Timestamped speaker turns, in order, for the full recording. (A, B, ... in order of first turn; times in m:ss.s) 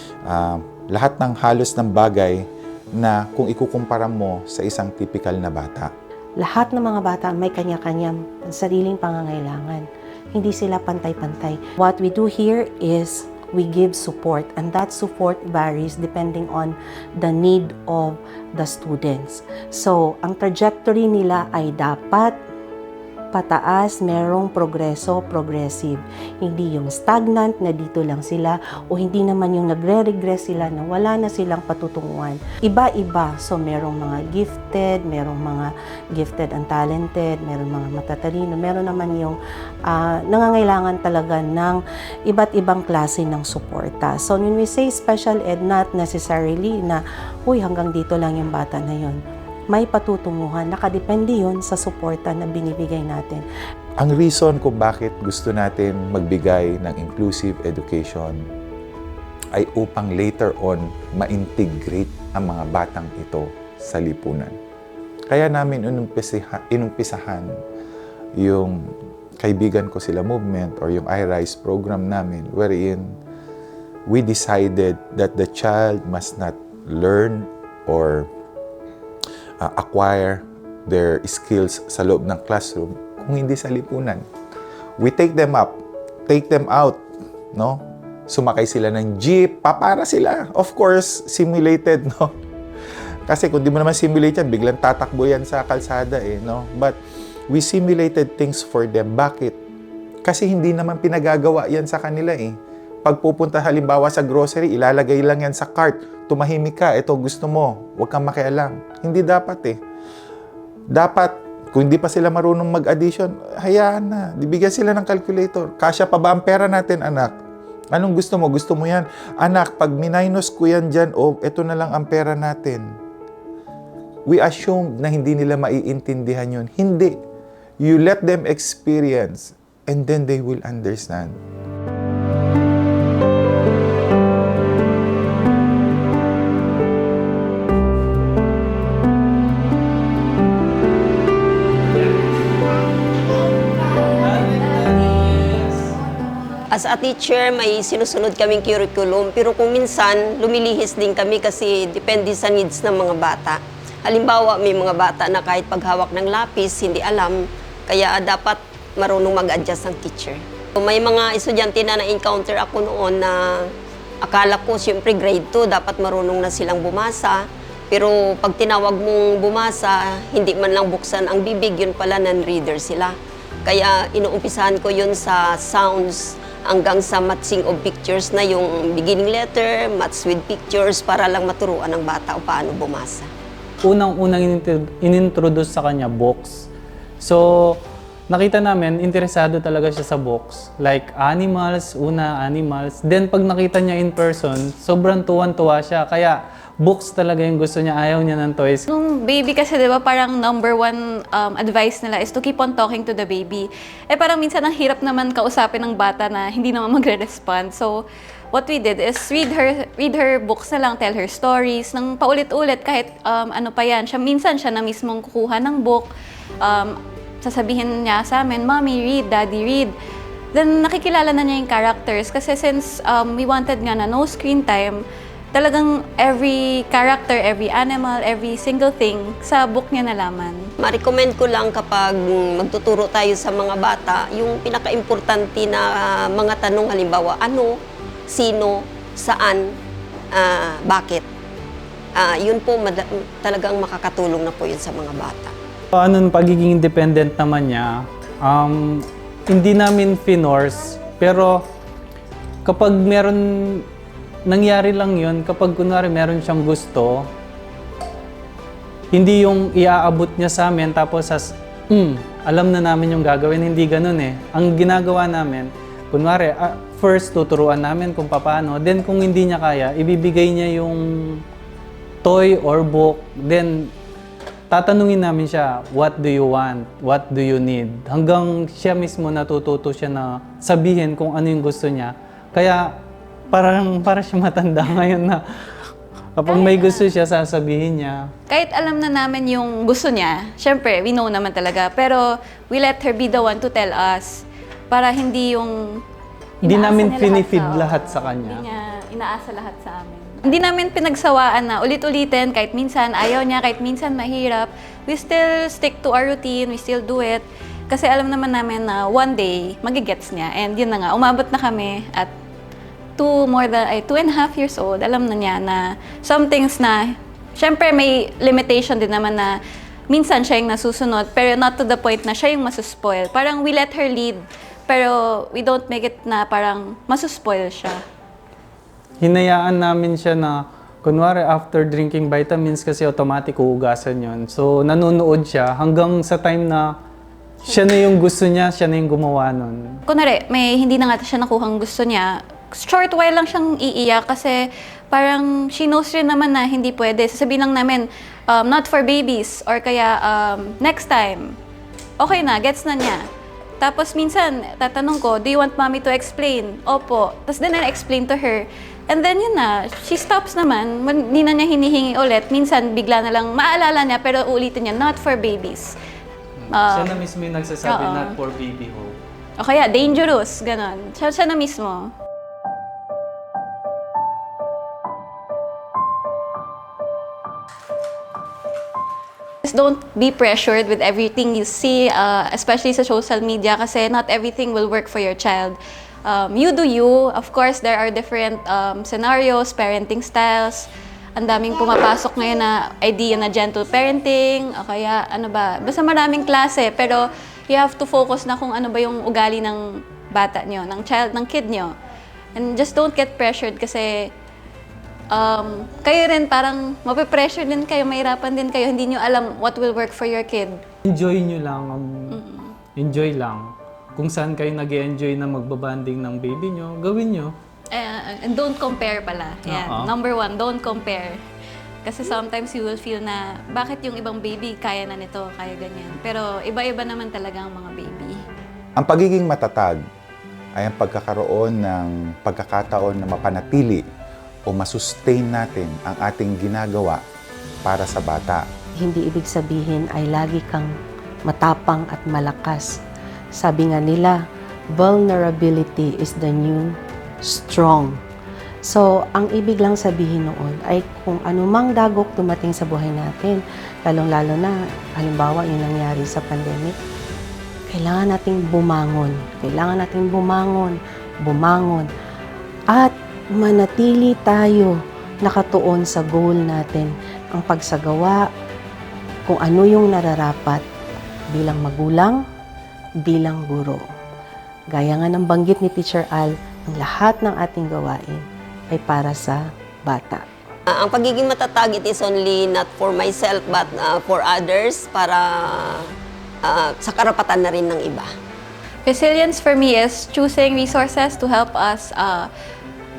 0:00.3-0:02.4 A
0:03.0-0:05.9 A
0:06.4-0:22.4 B
0:23.3-0:49.2 B
0:49.7-0:53.4 B
0:54.0-0:58.4 A
0:59.5-1:04.6 A
1:05.3-1:07.5 A
1:08.4-1:08.8 A
1:09.4-1:13.1 A
1:14.1-1:18.3 A
1:19.6-1:24.2 A
1:25.0-1:32.3 A
1:33.3-1:37.0 A
1:37.5-1:39.6 A
1:40.2-1:49.8 A
1:50.9-1:57.3 A
1:57.9-2:03.0 A
2:04.3-2:07.2 A
2:07.8-2:11.4 A
2:24.1-2:25.8 C
2:26.7-2:43.7 D
2:44.2-2:47.4 D
2:47.9-3:03.3 D
3:03.8-3:06.7 C
3:07.2-3:07.8 C
3:08.3-3:18.8 C
3:18.9-3:36.1 E
3:36.6-3:39.9 E
3:40.5-3:45.0 E
3:45.5-3:50.7 E
3:50.8-3:57.7 D
3:58.3-3:59.7 D
4:00.3-4:01.3 D
4:02.2-4:05.6 D
4:05.9-4:11.6 C
4:12.6-4:13.8 C
4:14.5-4:17.3 C
4:19.1-4:31.4 C
4:32.2-4:33.9 C
4:34.7-4:42.9 C
4:43.5-4:45.4 C
4:46.4-4:48.3 C
4:46.5-4:47.1 E
4:48.5-4:56.0 E
4:56.6-5:12.3 E
4:56.6-4:58.6 C
5:13.2-5:19.6 E
5:20.1-5:28.0 E
5:29.2-5:36.9 C
5:37.6-5:39.8 C
5:40.1-5:51.6 E
5:52.2-5:53.2 E
5:53.8-6:06.0 E
6:06.6-6:09.2 C
6:06.7-6:07.2 E
6:07.8-6:08.3 E
6:09.6-6:12.1 E
6:19.6-6:41.9 E
6:42.6-6:44.3 E
6:45.3-6:50.8 E
6:51.1-6:52.4 C
6:52.3-6:52.8 E
6:53.0-6:57.5 C
6:57.9-7:01.4 E
6:59.7-7:00.1 C
7:02.0-7:08.4 E
7:09.0-7:10.0 A
7:10.8-7:14.0 A
7:14.7-7:17.2 A
7:17.8-7:18.7 A
7:19.0-7:20.9 B
7:21.5-7:23.0 B
7:23.6-7:24.4 B
7:24.9-7:28.2 B
7:28.9-7:37.0 B
7:37.9-7:42.1 B
7:42.9-7:48.4 B
7:49.5-7:50.8 B
7:51.5-7:52.4 B
7:53.2-7:54.0 B
7:54.9-8:00.4 B
8:00.9-8:06.1 D
8:06.6-8:08.3 D
8:09.1-8:12.5 E